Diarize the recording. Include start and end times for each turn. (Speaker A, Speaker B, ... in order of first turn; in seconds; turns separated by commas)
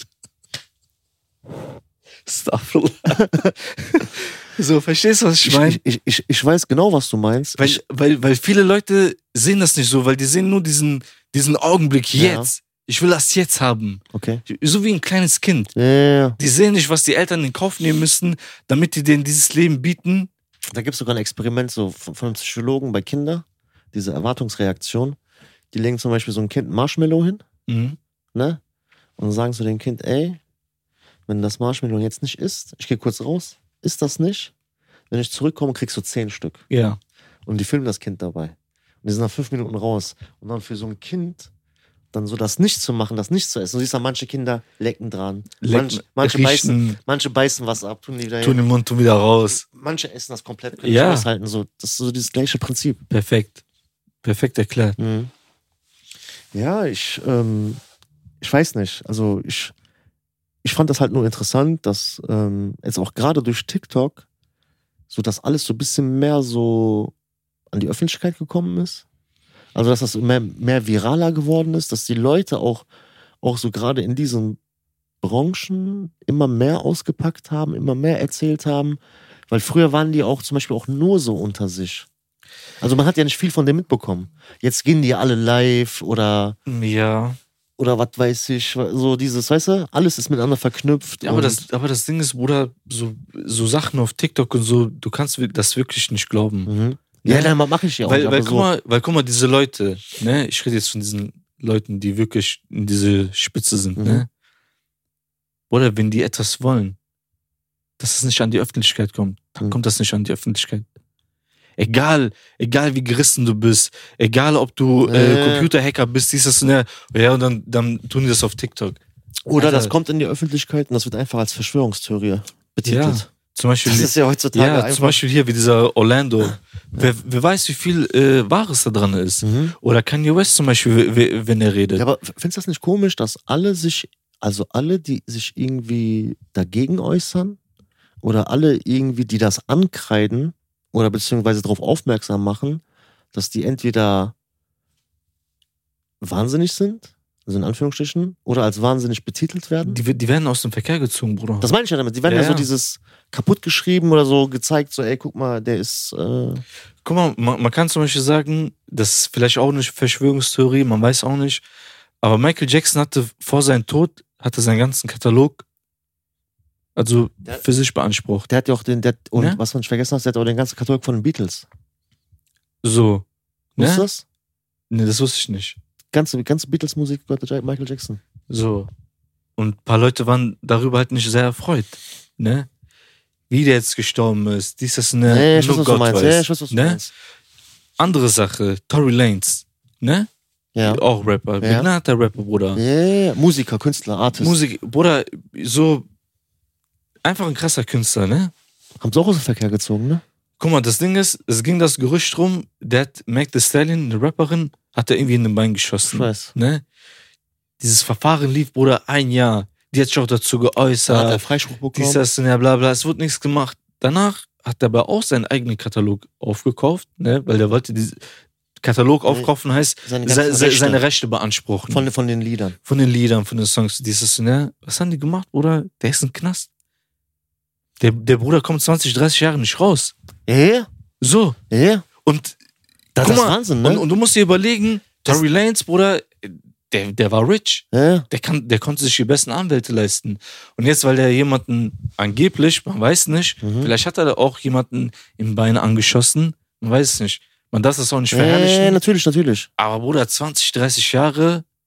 Speaker A: 2.2-5.8, Speaker B: 5.4-7.8, Speaker A: 7.6-15.7, Speaker B: 12.2-12.5, Speaker B: 14.1-14.4, Speaker B: 15.7-16.4, Speaker A: 16.4-20.3, Speaker B: 20.7-25.2, Speaker B: 25.7-27.4, Speaker A: 27.7-28.0, Speaker B: 28.3-28.6, Speaker B: 29.2-30.4, Speaker B: 31.3-34.5, Speaker B: 35.1-36.6, Speaker A: 36.7-37.0, Speaker B: 37.5-41.5, Speaker B: 42.1-48.6, Speaker A: 45.6-47.0, Speaker A: 48.4-49.6, Speaker B: 49.5-53.0, Speaker A: 50.8-51.3, Speaker A: 53.1-53.6, Speaker A: 54.2-55.0, Speaker B: 55.0-55.3, Speaker B: 56.5-57.8, Speaker B: 58.4-59.7, Speaker B: 60.6-64.2, Speaker B: 65.1-67.1, Speaker B: 67.7-69.0, Speaker B: 69.7-72.9, Speaker B: 73.4-74.6, Speaker B: 75.2-82.1, Speaker B: 82.8-86.6, Speaker A: 86.7-87.4, Speaker B: 87.8-91.6, Speaker A: 91.2-96.7, Speaker B: 96.7-98.7, Speaker A: 97.2-104.3, Speaker B: 104.0-104.2, Speaker A: 105.7-107.0, Speaker A: 108.0-110.8, Speaker A: 111.8-119.0, Speaker B: 115.0-115.7, Speaker B: 119.5-123.2, Speaker A: 119.5-119.9, Speaker A: 122.8-132.0, Speaker B: 123.8-125.2, Speaker B: 129.4-129.7, Speaker B: 131.9-137.6, Speaker B: 138.2-142.8, Speaker B: 143.3-144.3, Speaker B: 146.2-150.0, Speaker A: 149.8-151.7, Speaker B: 151.6-156.6, Speaker A: 152.2-152.7, Speaker A: 157.0-161.6, Speaker A: 162.2-165.6, Speaker A: 166.9-168.5, Speaker B: 168.5-171.7, Speaker A: 169.3-169.6, Speaker A: 172.8-173.2, Speaker A: 173.8-174.1, Speaker B: 173.8-174.2, Speaker A: 174.9-175.8, Speaker B: 176.1-178.2, Speaker A: 178.5-178.9, Speaker A: 179.6-182.7, Speaker A: 183.5-187.0, Speaker B: 185.3-187.1, Speaker A: 188.0-190.3, Speaker B: 190.7-191.0, Speaker A: 190.8-192.8, Speaker B: 191.6-191.9, Speaker B: 192.8-194.6, Speaker A: 194.4-196.1, Speaker A: 197.2-198.5, Speaker B: 199.0-200.2, Speaker A: 200.6-206.8, Speaker B: 206.0-206.5, Speaker A: 207.8-211.4, Speaker B: 211.1-212.2, Speaker A: 211.9-218.2, Speaker A: 218.8-222.1, Speaker B: 220.0-221.0, Speaker B: 221.9-222.8, Speaker A: 222.8-226.7, Speaker A: 228.0-230.1, Speaker B: 230.5-230.9, Speaker A: 231.2-231.6, Speaker B: 231.7-232.1, Speaker A: 232.2-232.6, Speaker B: 233.1-234.0, Speaker A: 233.2-249.0, Speaker B: 237.9-238.3, Speaker B: 243.6-243.9, Speaker B: 248.3-249.7, Speaker A: 249.8-251.6